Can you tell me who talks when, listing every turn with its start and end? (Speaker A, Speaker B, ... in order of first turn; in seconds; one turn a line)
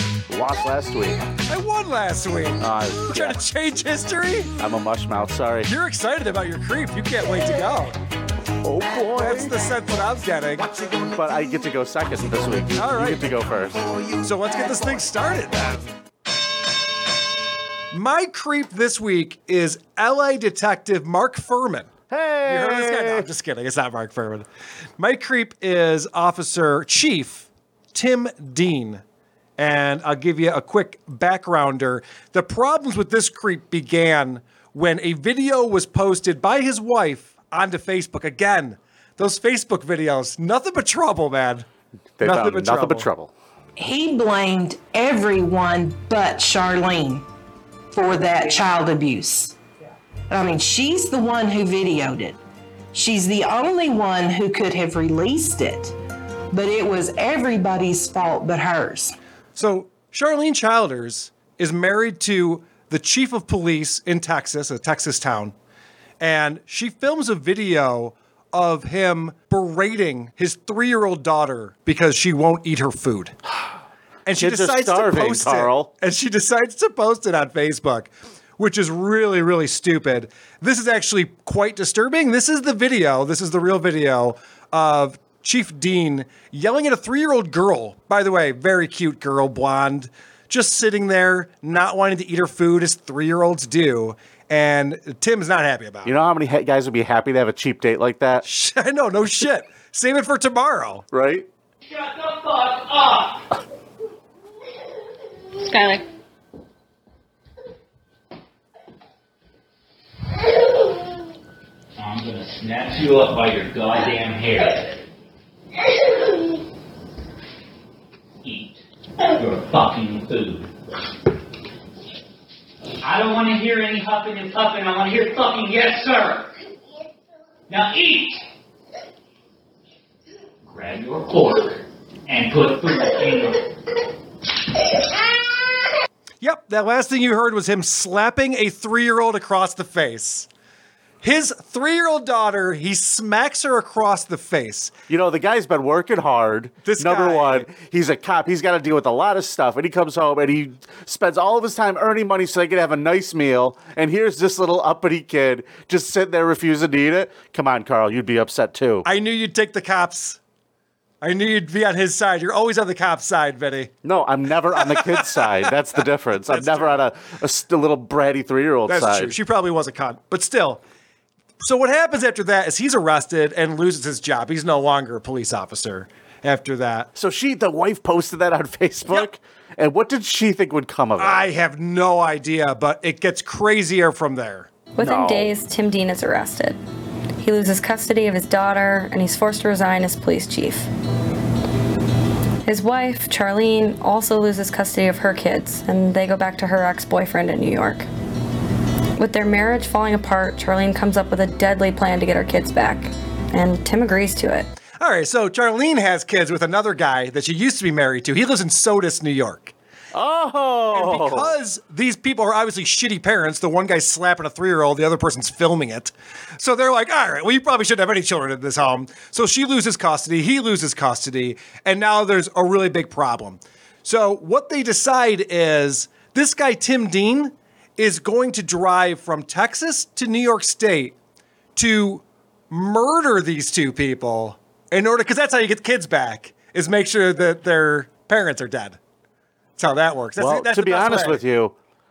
Speaker A: 0.3-1.2
Speaker B: 1.5-4.5
Speaker A: 2.6-3.4
Speaker A: 4.6-5.7
Speaker B: 5.7-8.0
Speaker A: 8.6-9.5
Speaker B: 9.2-10.7
Speaker A: 11.1-13.9
Speaker B: 12.8-13.3
Speaker B: 14.2-15.9
Speaker B: 17.9-21.9
Speaker A: 22.1-23.3
Speaker B: 22.5-24.5
Speaker B: 25.0-29.0
Speaker B: 29.6-41.7
Speaker A: 42.2-43.3
Speaker B: 42.2-43.1
Speaker C: 43.8-47.3
Speaker C: 47.9-49.6
Speaker C: 50.3-52.4
Speaker C: 52.9-56.0
Speaker C: 56.5-59.2
Speaker B: 59.6-65.5
Speaker B: 66.2-73.3
Speaker B: 74.3-96.1
Speaker A: 74.4-75.9
Speaker A: 96.0-98.5
Speaker B: 98.5-101.0
Speaker A: 101.1-101.5
Speaker D: 101.8-103.5
Speaker E: 105.7-106.0
Speaker D: 112.0-115.0
Speaker D: 118.4-120.7
Speaker D: 123.0-126.5
Speaker D: 127.7-128.4
Speaker D: 130.7-133.7
Speaker B: 136.4-140.5
Speaker B: 141.2-144.9
Speaker A: 145.1-159.1
Speaker B: 146.8-147.7
Speaker B: 159.1-160.4
Speaker B: 161.2-163.9
Speaker A: 164.0-169.3
Speaker B: 164.8-165.7
Speaker B: 166.5-167.0
Speaker B: 168.9-170.8
Speaker B: 171.6-177.1
Speaker A: 177.2-181.5
Speaker B: 181.2-184.7
Speaker E: 185.0-186.8
Speaker A: 185.0-185.5
Speaker E: 187.4-190.9
Speaker E: 192.7-198.1
Speaker E: 199.2-204.7
Speaker B: 205.0-209.7
Speaker A: 210.1-211.5
Speaker B: 210.9-231.2
Speaker B: 231.8-239.0
Speaker B: 239.8-241.4
Speaker A: 240.4-241.8